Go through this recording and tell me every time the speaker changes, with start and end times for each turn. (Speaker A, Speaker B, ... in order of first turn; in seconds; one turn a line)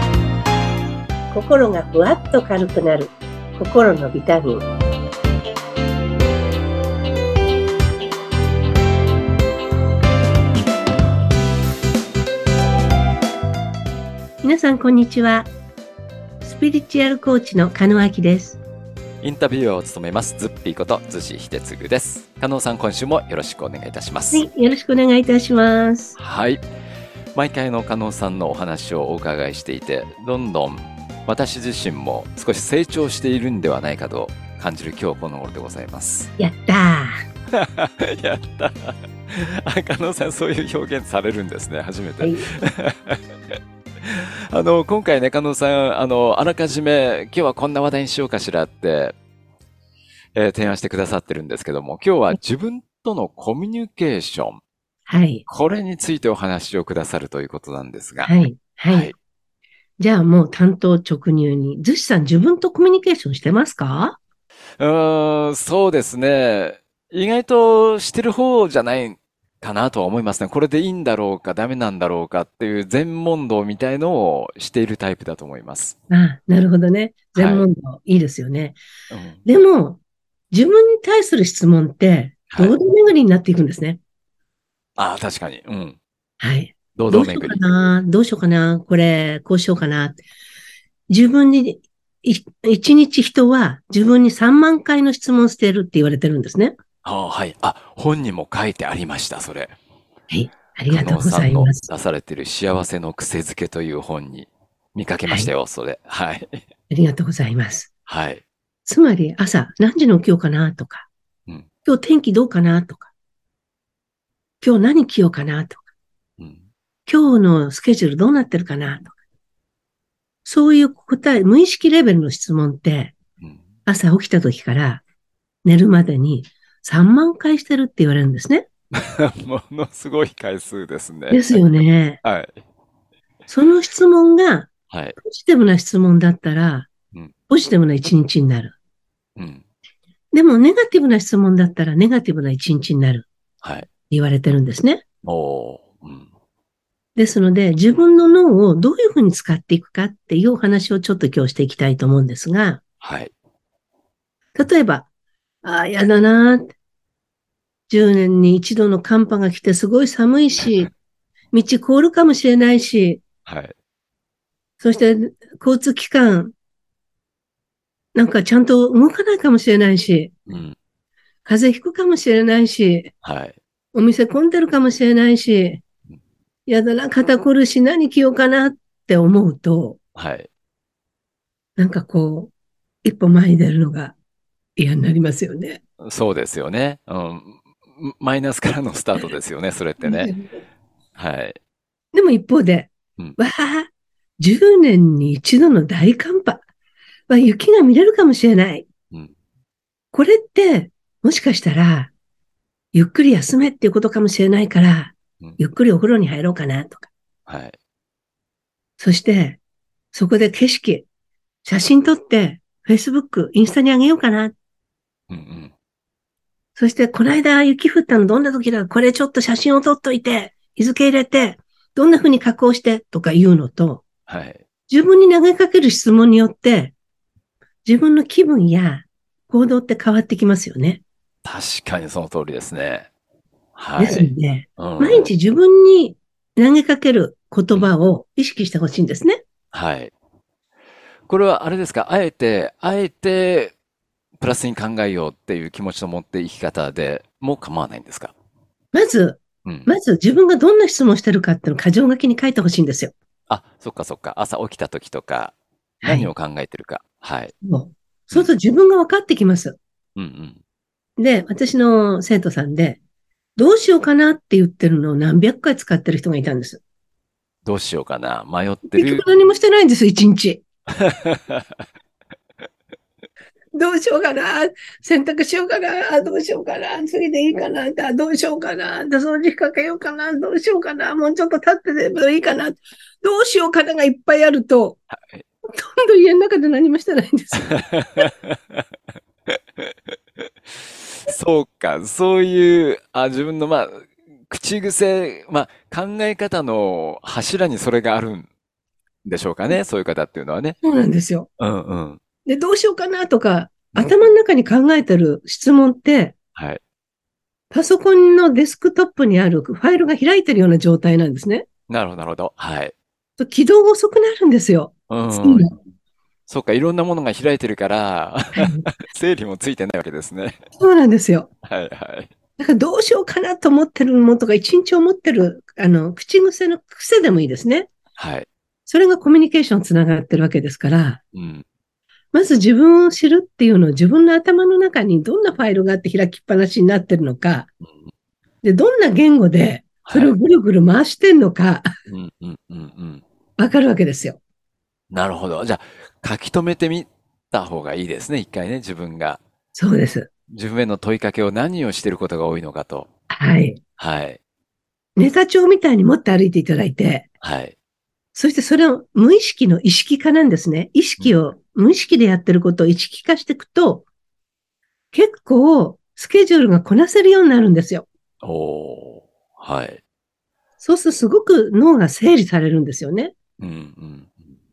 Speaker A: 1.3-4.7
Speaker A: 14.4-15.5
Speaker A: 16.4-18.6
Speaker B: 19.2-24.5
Speaker A: 24.3-26.2
Speaker B: 26.2-26.6
Speaker B: 27.3-36.3
Speaker A: 36.4-37.1
Speaker B: 37.5-43.2
Speaker A: 42.2-42.5
Speaker B: 44.0-49.1
Speaker B: 50.4-54.6
Speaker A: 55.1-55.4
Speaker B: 55.5-59.1
Speaker A: 58.2-59.1
Speaker A: 60.0-64.2
Speaker B: 64.8-76.0
Speaker A: 76.1-78.8
Speaker B: 77.3-77.7
Speaker B: 79.1-79.4
Speaker A: 79.4-80.0
Speaker A: 80.5-84.0
Speaker B: 82.5-82.8
Speaker B: 85.0-86.0
Speaker A: 86.4-90.2
Speaker B: 87.0-87.6
Speaker A: 91.1-96.8
Speaker B: 97.0-99.7
Speaker A: 100.3-101.9
Speaker B: 100.9-106.6
Speaker A: 106.9-107.9
Speaker B: 108.1-108.4
Speaker A: 108.8-111.1
Speaker A: 111.8-113.1
Speaker A: 114.6-115.8
Speaker A: 117.1-119.1
Speaker A: 120.4-123.1
Speaker A: 123.8-125.0
Speaker A: 125.6-128.7
Speaker B: 128.9-132.6
Speaker A: 131.3-132.2
Speaker A: 133.5-136.9
Speaker B: 134.9-135.2
Speaker A: 137.5-138.8
Speaker B: 139.4-139.6
Speaker A: 140.3-143.3
Speaker B: 143.6-143.9
Speaker A: 144.1-145.0
Speaker B: 145.2-146.3
Speaker A: 147.2-152.8
Speaker B: 153.0-153.3
Speaker A: 154.5-155.1
Speaker A: 155.6-156.7
Speaker A: 157.9-160.9
Speaker A: 161.5-163.2
Speaker B: 163.4-163.7
Speaker A: 164.8-166.5
Speaker A: 168.1-170.3
Speaker B: 170.5-170.7
Speaker A: 171.4-173.1
Speaker B: 173.2-173.6
Speaker A: 173.9-175.8
Speaker A: 176.7-180.0
Speaker B: 180.2-180.5
Speaker A: 181.8-182.5
Speaker A: 183.0-184.2
Speaker A: 184.8-185.8
Speaker B: 186.0-190.3
Speaker A: 190.0-190.5
Speaker B: 191.2-191.6
Speaker A: 192.1-193.9
Speaker A: 194.4-196.6
Speaker A: 197.3-198.9
Speaker A: 200.1-202.1
Speaker A: 202.9-207.1
Speaker B: 207.5-207.7
Speaker A: 209.0-209.6
Speaker A: 210.1-211.1
Speaker A: 211.6-214.5
Speaker B: 215.3-215.7
Speaker A: 216.8-224.0
Speaker B: 224.3-224.6
Speaker A: 224.9-226.9
Speaker A: 227.8-231.0
Speaker B: 231.4-233.1
Speaker B: 233.8-235.3
Speaker A: 234.0-239.4
Speaker B: 239.7-240.1
Speaker B: 241.3-243.7
Speaker B: 244.4-248.3
Speaker A: 248.9-253.1
Speaker B: 253.5-257.5
Speaker A: 256.0-256.3
Speaker A: 257.6-259.8
Speaker B: 260.1-260.6
Speaker A: 261.2-263.0
Speaker A: 263.6-266.8
Speaker B: 267.6-269.2
Speaker A: 268.9-270.6
Speaker B: 271.0-271.6
Speaker A: 273.7-285.0
Speaker B: 285.1-285.4
Speaker A: 285.7-287.7
Speaker B: 287.6-288.8
Speaker B: 291.1-298.5
Speaker B: 299.2-300.8
Speaker A: 300.8-301.5
Speaker B: 301.6-302.2
Speaker A: 302.4-306.3
Speaker A: 307.7-311.6
Speaker B: 311.9-312.9
Speaker A: 313.4-315.7
Speaker B: 315.1-315.7
Speaker B: 316.5-320.6
Speaker A: 318.6-318.9
Speaker A: 320.8-321.5
Speaker B: 321.6-322.3
Speaker A: 322.6-327.9
Speaker B: 328.1-328.5
Speaker A: 328.9-331.2
Speaker B: 331.3-331.6
Speaker A: 332.3-337.7
Speaker A: 338.6-341.9
Speaker B: 340.0-340.3
Speaker B: 342.1-343.2
Speaker A: 343.6-344.4
Speaker B: 345.1-349.4
Speaker A: 349.7-350.3
Speaker B: 350.5-353.1
Speaker A: 353.3-353.8
Speaker B: 354.0-354.4
Speaker A: 355.2-357.3
Speaker B: 357.4-357.7
Speaker A: 358.3-364.1
Speaker A: 365.1-368.1
Speaker B: 368.4-370.0
Speaker A: 370.8-373.3
Speaker B: 373.6-374.3